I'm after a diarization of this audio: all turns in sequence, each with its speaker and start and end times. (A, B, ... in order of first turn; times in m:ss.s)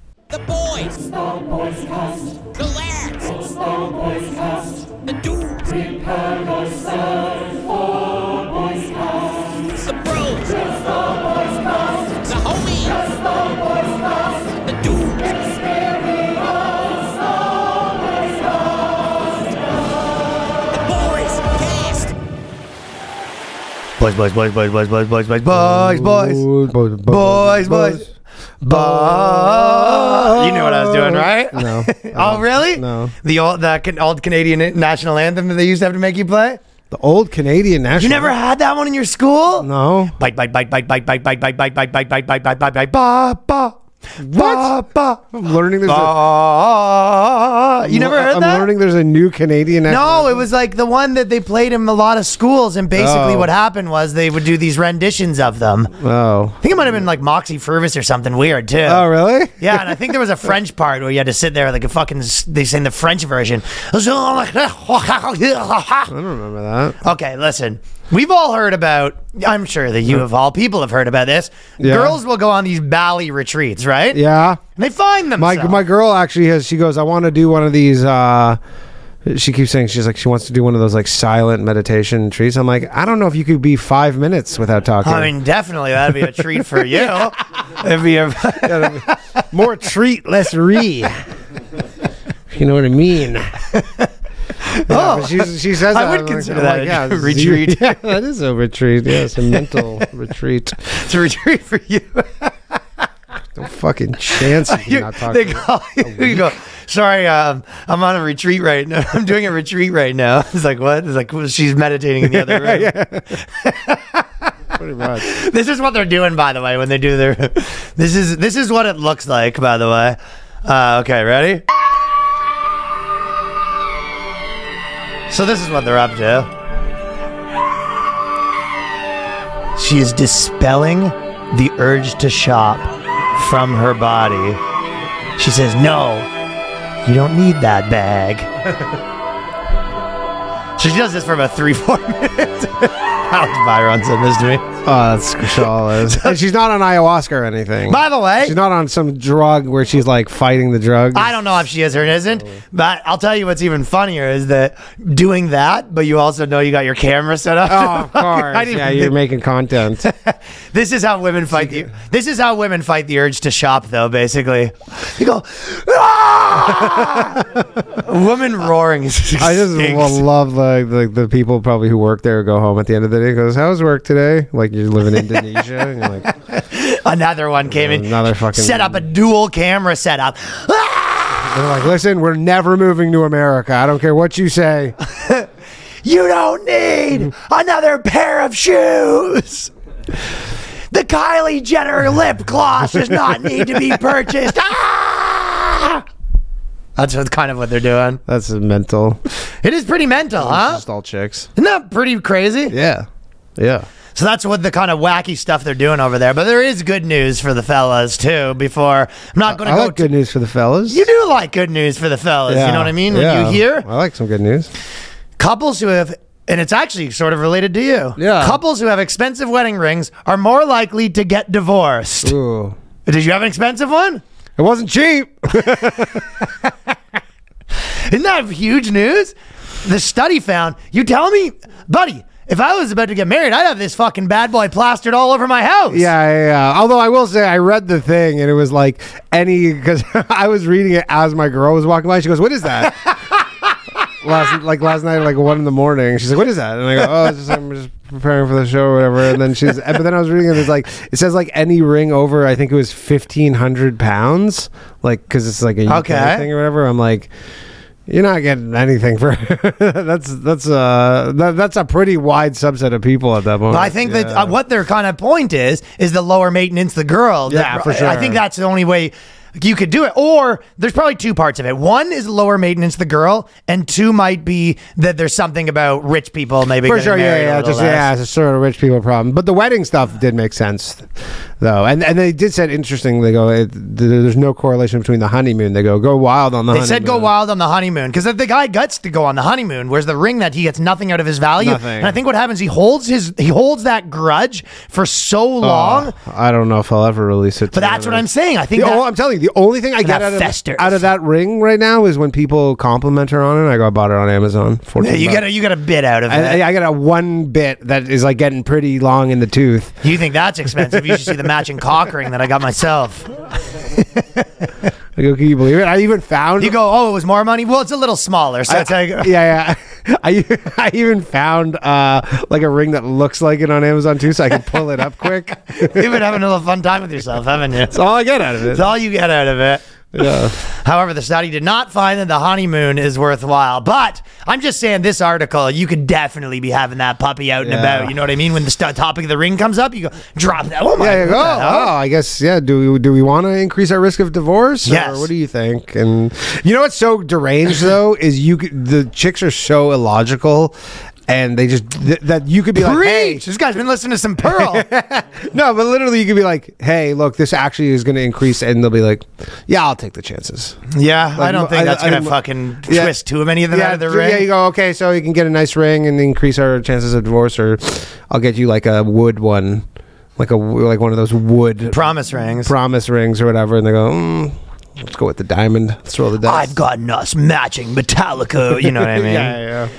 0:00.3-0:07.2 A
0:09.4-0:15.5 A
0:20.7-0:22.1 A
0:24.0-0:26.4 B
0:25.5-0:28.1 C
0:27.1-0:28.1 B
0:28.6-0:33.1 C
0:28.6-0:36.6 B
0:36.9-0:38.3 C
0:38.0-0:45.3 B
0:39.6-0:40.1 C
0:44.2-0:44.7 C
0:45.3-0:46.2 C
0:45.8-0:48.7 B
0:47.8-0:50.4 C
0:49.9-0:55.9 B
0:53.0-0:53.5 C
0:56.0-0:56.6 C
0:56.6-0:59.0 B
0:58.8-1:00.0 C
0:59.6-1:06.1 B
1:06.1-1:07.0 C
1:07.0-1:14.2 B
1:11.8-1:12.2 C
1:14.1-1:14.6 C
1:14.8-1:15.8 B
1:15.4-1:18.6 C
1:19.2-1:25.3 C
1:25.0-1:29.4 B
1:28.6-1:31.1 C
1:32.5-1:33.5 C
1:33.7-1:34.1 B
1:34.6-1:38.0 B
1:34.9-1:40.9 C
1:39.5-1:40.0 B
1:40.9-1:42.8 B
1:43.6-1:46.5 C
1:44.3-1:54.2 B
1:52.2-1:53.3 C
1:54.7-1:55.3 C
1:55.0-2:01.6 B
2:05.3-2:06.5 B
2:09.8-2:14.6 B
2:15.4-2:16.3 B
2:17.0-2:18.5 B
2:20.8-2:24.7 B
2:24.8-2:31.4 C
2:25.6-2:26.4 B
2:27.9-2:28.6 B
2:31.1-2:39.1 B
2:37.7-2:40.0 C
2:40.0-2:50.2 B
2:41.5-2:41.8 C
2:46.9-2:47.4 C
2:49.4-2:56.3 C
2:56.2-3:01.8 B
2:57.7-2:59.0 C
3:01.4-3:05.0 C
3:05.1-3:05.4 B
3:06.0-3:09.7 B
3:10.9-3:16.0 B
3:17.0-3:18.2 B
3:18.2-3:19.2 C
3:19.6-3:20.8 B
3:20.4-3:21.5 C
3:21.6-3:22.7 B
3:22.7-3:23.8 C
3:24.1-3:30.1 B
3:29.5-3:31.0 C
3:30.9-3:33.9 B
3:32.5-3:34.7 C
3:35.4-3:42.3 B
3:38.2-3:38.6 C
3:42.2-3:42.8 C
3:43.0-3:44.2 B
3:44.6-3:46.7 C
3:47.8-3:56.1 B
3:55.9-4:03.1 C
4:04.2-4:17.3 C
4:15.9-4:16.5 B
4:18.1-4:24.6 C
4:23.7-4:38.1 B
4:27.5-4:28.4 C
4:36.8-4:41.1 C
4:41.6-4:47.3 C
4:46.7-4:56.1 B
4:51.6-4:52.2 C
4:55.6-5:05.5 C
4:57.7-4:59.0 B
5:00.0-5:01.0 B
5:05.0-5:06.6 B
5:06.3-5:10.0 C
5:10.0-5:13.3 B
5:10.8-5:11.4 C
5:13.9-5:14.5 B
5:15.2-5:16.8 C
5:16.6-5:19.3 B
5:18.7-5:26.2 C
5:25.8-5:28.0 B
5:27.9-5:28.9 C
5:28.6-5:41.9 B
5:30.1-5:30.5 C
5:37.6-5:38.1 C
5:41.0-5:50.7 C
5:44.8-5:45.3 B
5:51.3-5:53.4 C
5:52.7-5:54.9 B
5:54.4-6:00.8 C
6:00.9-6:04.4 B
6:01.4-6:03.1 C
6:03.7-6:09.8 C
6:10.4-6:16.8 C
6:11.9-6:12.7 B
6:16.4-6:19.6 B
6:18.8-6:19.9 C